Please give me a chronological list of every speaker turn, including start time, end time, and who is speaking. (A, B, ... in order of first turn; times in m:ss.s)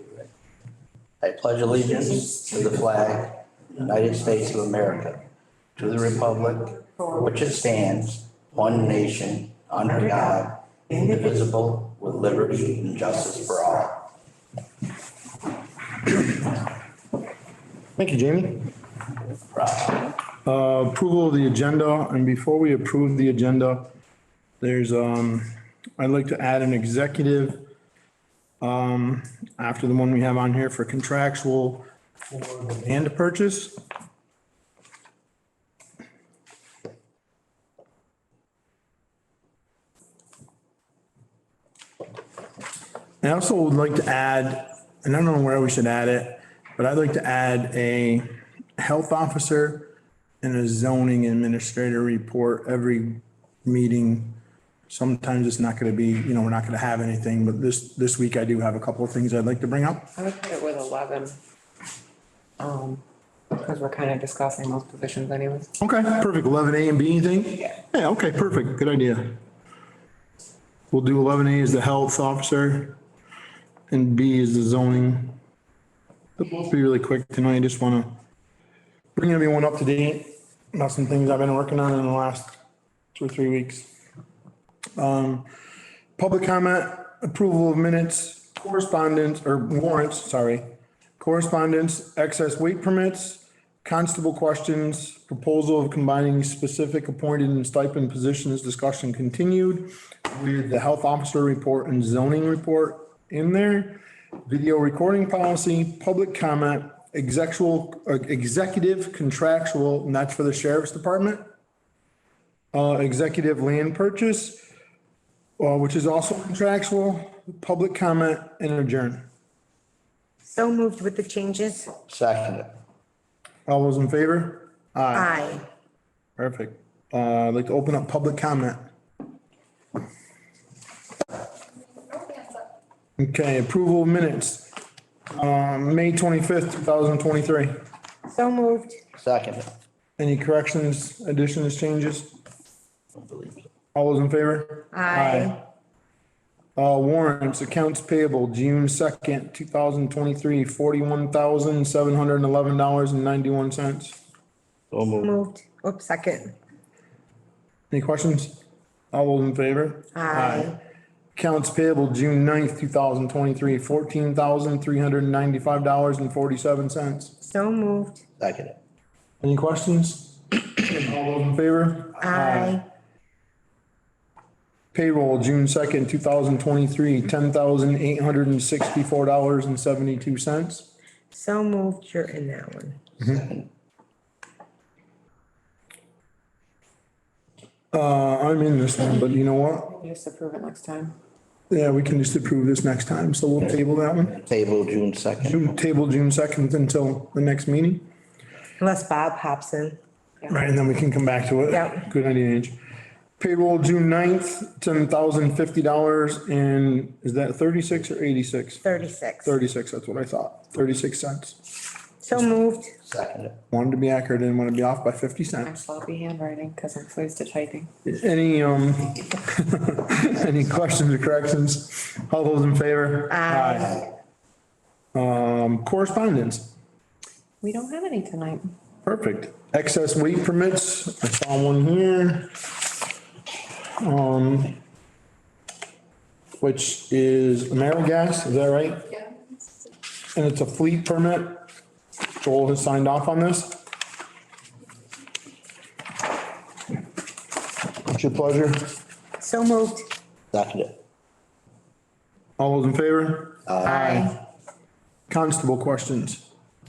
0:01.2-0:05.2 A
0:05.8-0:14.1 A
0:18.0-0:18.7 B
0:19.5-0:20.1 A
0:20.4-0:23.9 B
0:24.6-0:27.7 B
0:28.6-0:33.8 B
0:43.2-0:54.4 B
0:54.9-1:00.1 B
1:00.2-1:01.4 C
1:02.6-1:03.0 C
1:03.5-1:05.7 C
1:05.8-1:09.4 B
1:10.9-1:13.0 B
1:13.9-1:15.4 B
1:16.4-1:18.2 B
1:19.1-1:22.6 B
1:23.1-1:23.9 B
1:25.0-1:25.5 B
1:26.2-1:30.6 B
1:31.2-1:51.4 B
1:52.7-1:54.6 B
1:55.6-1:59.2 B
2:00.4-2:01.9 D
2:02.1-2:02.7 A
2:03.7-2:05.3 B
2:05.1-2:05.6 D
2:06.4-2:08.9 B
2:13.2-2:14.7 B
2:15.3-2:17.7 B
2:18.3-2:19.0 D
2:19.2-2:19.7 A
2:20.2-2:22.3 B
2:23.2-2:23.6 A
2:23.9-2:25.6 B
2:24.9-2:25.6 D
2:26.8-2:34.2 B
2:34.9-2:35.3 A
2:35.2-2:36.5 D
2:37.9-2:40.7 B
2:40.1-2:40.8 D
2:41.3-2:47.4 B
2:47.4-2:48.2 D
2:48.4-2:48.8 A
2:49.4-2:52.8 B
2:52.2-2:52.9 D
2:54.9-3:00.9 B
3:01.3-3:03.0 D
3:07.9-3:09.9 B
3:09.8-3:11.2 C
3:11.7-3:14.4 B
3:14.3-3:15.7 A
3:15.4-3:18.0 B
3:18.8-3:20.0 D
3:20.5-3:22.8 B
3:21.7-3:22.0 D
3:23.4-3:28.8 B
3:28.8-3:29.5 D
3:29.4-3:31.6 B
3:32.2-3:32.9 D
3:33.0-3:33.6 A
3:33.7-3:35.7 B
3:35.6-3:37.9 C
3:38.0-3:44.1 B
3:43.3-3:43.9 D
3:45.1-3:46.7 B
3:47.6-3:48.7 C
3:49.0-3:52.5 B
3:54.0-3:54.8 B
3:56.6-3:59.1 B
4:00.3-4:01.6 B
4:02.4-4:03.8 B
4:08.0-4:08.9 B
4:09.4-4:10.1 D
4:10.5-4:11.0 A
4:12.6-4:14.3 B
4:13.7-4:14.0 A
4:13.8-4:14.4 D
4:15.3-4:16.5 B